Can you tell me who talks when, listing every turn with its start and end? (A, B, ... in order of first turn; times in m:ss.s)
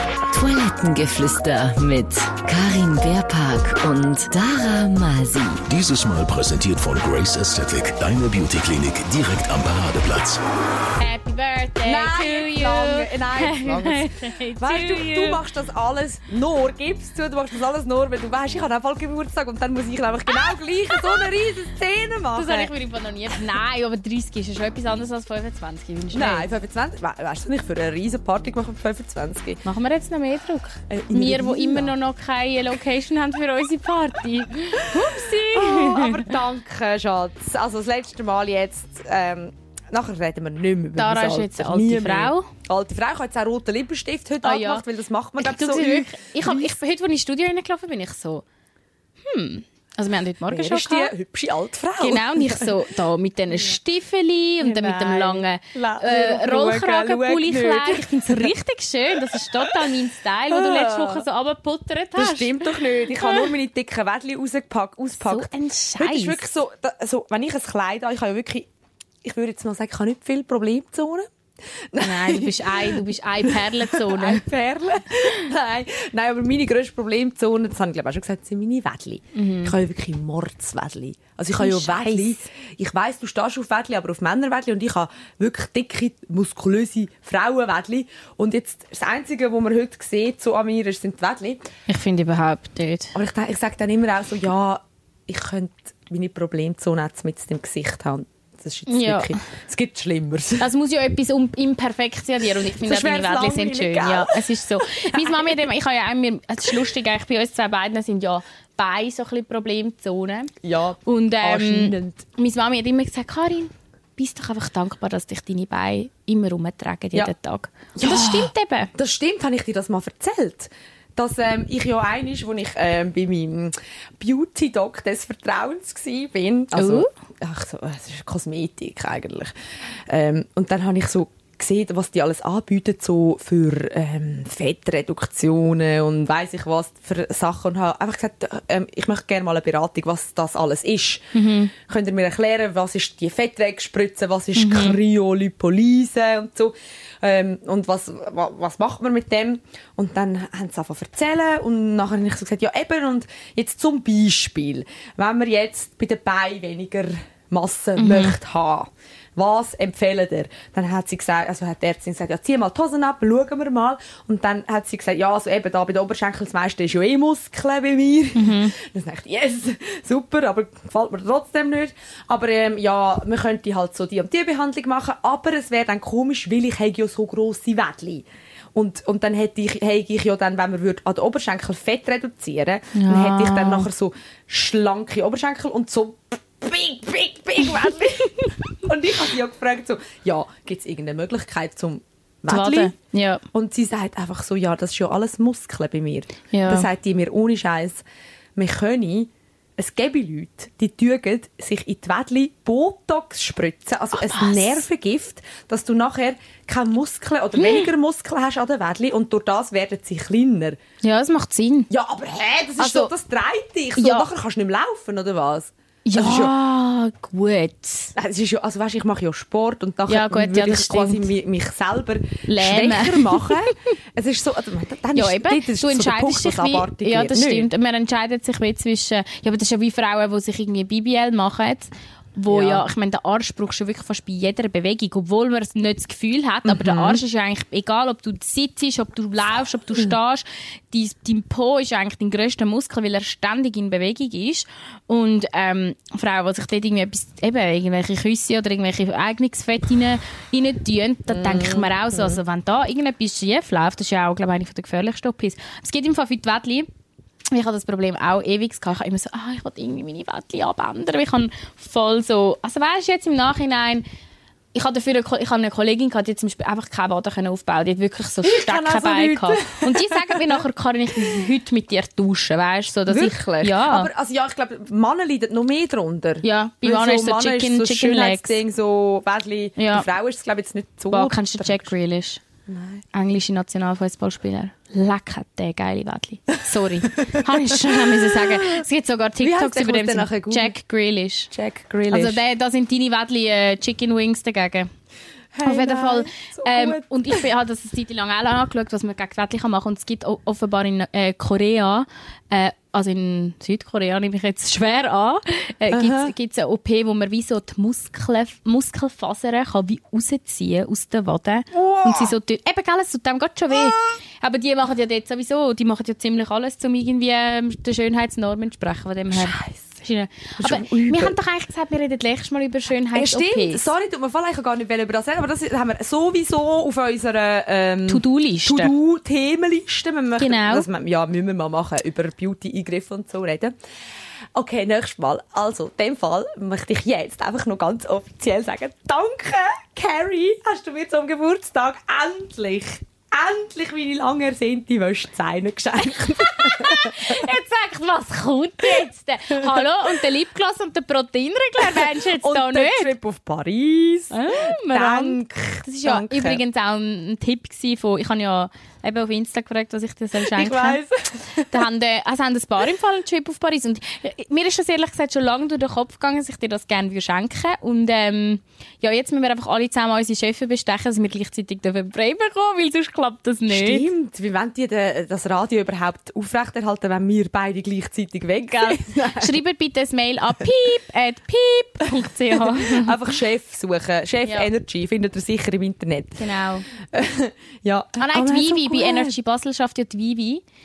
0:00.3-0:05.6 A
0:05.7-0:10.4 B
0:11.0-0:15.4 C
0:11.8-0:22.7 D
0:22.3-0:26.5 C
0:26.1-0:29.6 D
0:29.6-0:36.4 C
0:30.9-0:31.9 D
0:34.7-0:46.7 D
0:41.0-0:42.5 C
0:44.4-0:44.8 C
0:45.4-0:48.4 C
0:49.2-0:51.1 C
0:50.5-0:52.8 D
0:52.0-1:03.5 C
0:54.6-0:58.5 D
0:59.3-0:59.8 D
1:00.5-1:01.2 D
1:02.2-1:08.7 D
1:05.2-1:06.4 C
1:09.2-1:11.3 D
1:11.9-1:31.7 D
1:12.0-1:14.4 C
1:19.4-1:19.8 C
1:21.6-1:22.4 C
1:31.9-1:33.2 C
1:33.2-1:40.7 D
1:38.9-1:39.4 C
1:40.6-1:50.5 C
1:42.8-1:45.7 D
1:50.6-1:52.2 D
1:51.0-1:58.9 C
1:58.0-2:09.5 D
2:06.7-2:07.1 C
2:10.1-3:12.9 D
2:21.3-2:21.7 C
2:24.6-2:25.0 C
2:38.0-2:38.4 C
2:48.4-2:48.8 C
3:02.9-3:03.9 C
3:12.5-3:13.4 C
3:13.5-3:18.0 D
3:16.5-3:16.9 C
3:18.6-3:30.8 D
3:24.1-3:24.8 C
3:27.6-3:27.9 C
3:31.0-3:31.9 C
3:31.9-3:36.6 D
3:32.8-3:33.1 C
3:34.0-3:34.3 C
3:36.1-3:38.1 C
3:38.2-3:47.7 D
3:40.1-3:41.3 C
3:42.5-3:43.7 C
3:45.2-4:16.9 C
3:52.5-3:52.8 D
3:56.7-3:57.2 D
4:11.3-4:12.4 D
4:17.5-4:24.0 C
4:24.7-4:34.1 C
4:28.4-4:30.6 D
4:33.1-4:41.9 D
4:36.4-4:38.6 C
4:39.8-4:40.1 C
4:41.1-4:42.4 C
4:42.7-4:43.0 D
4:43.1-4:51.5 C
4:48.1-4:48.8 D
4:49.4-4:50.8 D
4:51.5-4:52.4 D
4:52.1-4:54.9 C
4:55.5-4:57.5 D
4:55.6-5:23.9 C
5:05.9-5:06.3 D
5:11.7-5:12.4 D
5:13.7-5:14.0 D
5:19.3-5:19.9 D
5:20.6-5:21.4 D
5:23.1-5:33.8 D
5:28.1-5:28.9 C
5:30.4-5:30.9 C
5:34.6-5:47.5 D
5:46.4-5:53.1 C
5:49.6-5:49.9 D
5:51.8-5:56.6 D
5:54.3-6:01.0 C
6:00.4-6:01.8 D
6:01.7-6:14.1 C
6:13.7-6:19.6 D
6:18.6-6:23.2 C
6:22.6-6:26.4 D
6:26.4-6:26.9 C
6:27.0-6:29.3 D
6:28.2-6:30.6 C